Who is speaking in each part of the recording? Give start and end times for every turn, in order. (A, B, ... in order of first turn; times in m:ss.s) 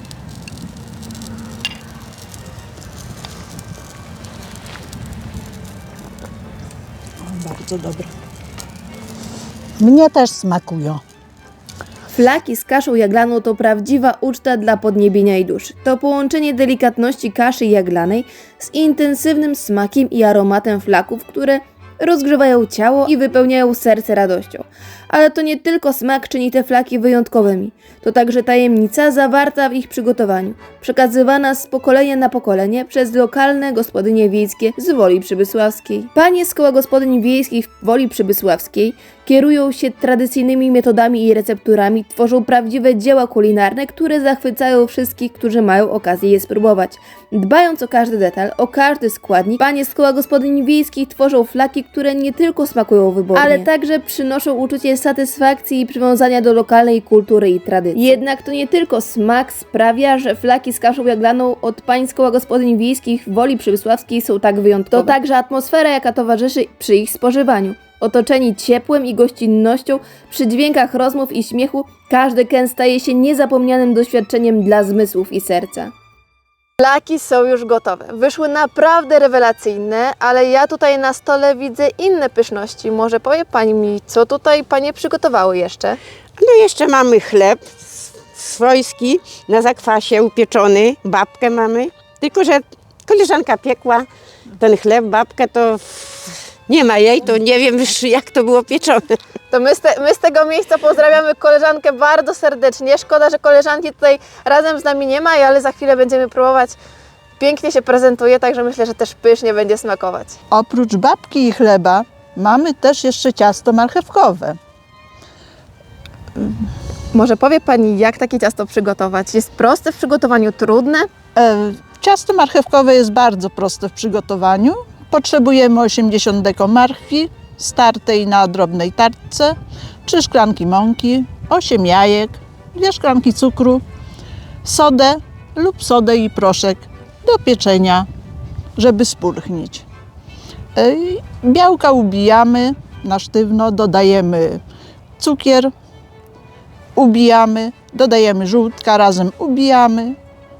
0:07.2-0:08.1 A
0:09.8-0:11.0 A
0:12.1-1:15.9 B
1:16.8-1:26.0 C
1:26.4-1:39.1 D
1:39.5-1:46.8 C
1:47.4-1:50.4 C
1:50.5-1:54.6 E
1:56.3-2:01.1 C
2:01.4-2:13.8 E
2:14.6-2:18.1 E
2:18.8-2:19.8 E
2:20.8-2:24.6 E
2:25.2-2:25.7 E
2:27.0-2:30.2 E